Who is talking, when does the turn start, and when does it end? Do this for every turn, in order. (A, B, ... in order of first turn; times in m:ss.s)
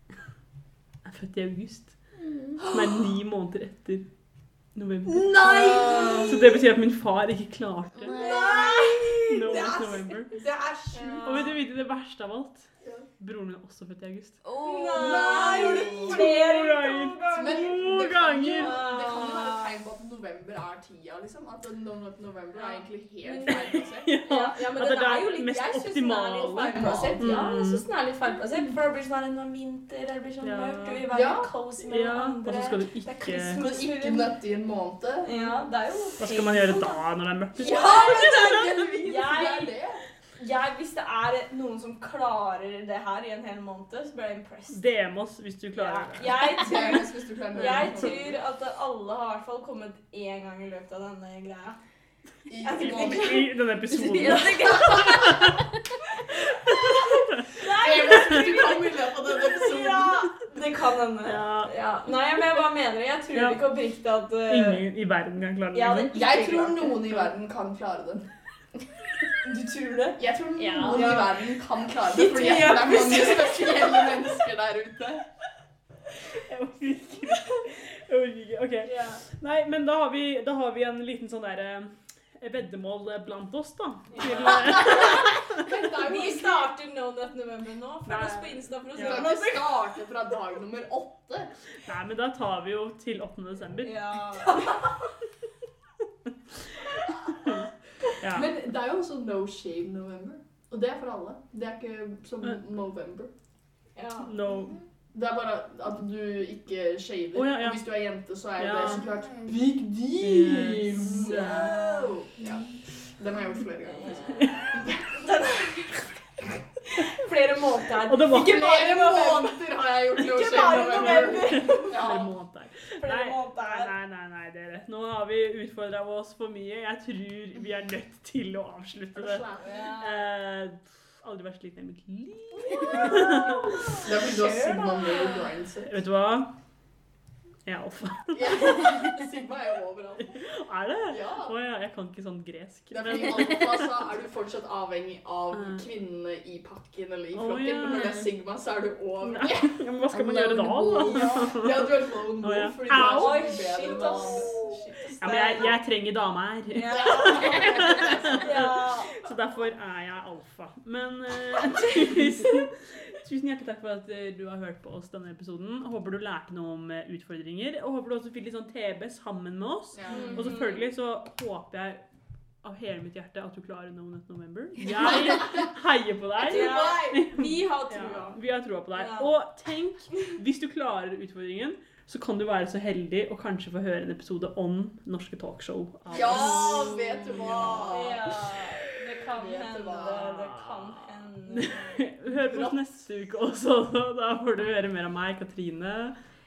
0:01.0-0:02.0 A
0:02.2-0:02.6 B
0:02.6-0:03.0 C
0:02.6-0:04.1 A
0:04.8-0:08.2 A
0:05.1-0:06.6 C
0:05.6-0:06.4 D
0:08.0-0:08.7 B
0:08.1-0:10.0 D
0:08.1-0:11.5 C
0:09.3-0:10.4 A
0:10.9-0:11.6 D
0:11.2-0:12.7 A
0:13.2-0:14.4 A
0:14.4-0:16.1 B
0:14.6-0:18.0 D
0:14.9-0:16.4 C
0:16.1-0:18.8 A
0:17.3-0:24.2 C
0:18.5-0:19.8 D
0:22.6-0:34.3 D
0:23.5-0:27.8 A
0:26.7-0:27.5 C
0:30.4-0:31.0 A
0:31.1-0:31.5 C
0:31.8-0:33.6 A
0:33.6-0:35.3 C
0:35.2-0:37.0 D
0:36.2-0:38.6 A
0:37.6-0:39.8 D
0:37.6-0:40.0 C
0:40.4-0:44.8 D
0:44.7-0:46.6 A
0:45.8-0:51.8 D
0:46.6-0:48.4 C
0:52.5-0:53.5 C
0:52.6-0:55.6 D
0:52.8-0:55.6 A
0:56.3-1:04.8 D
0:56.7-0:57.5 A
0:57.6-1:00.3 C
0:58.1-0:58.4 A
1:01.2-1:01.7 A
1:03.3-1:03.6 A
1:04.5-1:06.4 A
1:05.7-1:07.1 D
1:06.1-1:08.3 C
1:09.4-1:10.2 D
1:10.2-1:15.2 C
1:10.6-1:11.0 B
1:10.8-1:11.4 D
1:12.1-1:14.3 D
1:16.4-1:25.6 A
1:18.9-1:19.2 D
1:24.1-1:25.3 D
1:24.2-1:26.7 C
1:25.9-1:29.8 D
1:28.1-1:29.3 A
1:29.0-1:31.5 C
1:31.8-1:34.0 A
1:33.8-1:34.9 D
1:38.2-1:38.5 A
1:38.2-1:43.3 C
1:44.0-1:44.3 D
1:44.2-1:44.8 A
1:45.1-1:55.0 C
1:47.4-1:47.8 A
1:48.6-1:49.0 A
1:50.2-1:51.8 A
1:51.0-1:52.3 D
1:53.9-1:56.0 D
1:54.4-1:54.8 A
1:56.8-2:02.2 D
1:58.1-1:58.6 A
1:58.4-2:02.3 C
2:00.7-2:13.9 A
2:03.0-2:03.9 D
2:09.2-2:09.7 C
2:09.6-2:10.2 D
2:12.6-2:15.5 D
2:12.8-2:13.2 C
2:14.0-2:15.9 C
2:15.9-2:16.5 A
2:17.7-2:19.2 A
2:18.3-2:20.4 C
2:20.4-2:23.9 A
2:21.1-2:21.6 C
2:22.9-2:29.8 C
2:25.5-2:25.8 A
2:27.3-2:28.3 A
2:29.2-2:33.5 A
2:30.1-2:31.4 B
2:31.0-2:31.5 D
2:31.2-2:34.6 C
2:32.9-2:35.8 D
2:35.2-2:52.0 A
2:36.7-2:39.3 D
2:36.9-2:38.8 C
2:49.9-2:50.6 C
2:50.1-2:50.9 D
2:52.6-3:08.1 A
2:55.0-2:55.4 D
2:56.4-2:58.4 D
2:58.9-2:59.3 D
3:06.1-3:08.3 C
3:06.2-3:12.0 D
3:09.3-3:10.3 C
3:10.1-3:16.2 A
3:12.3-3:12.8 C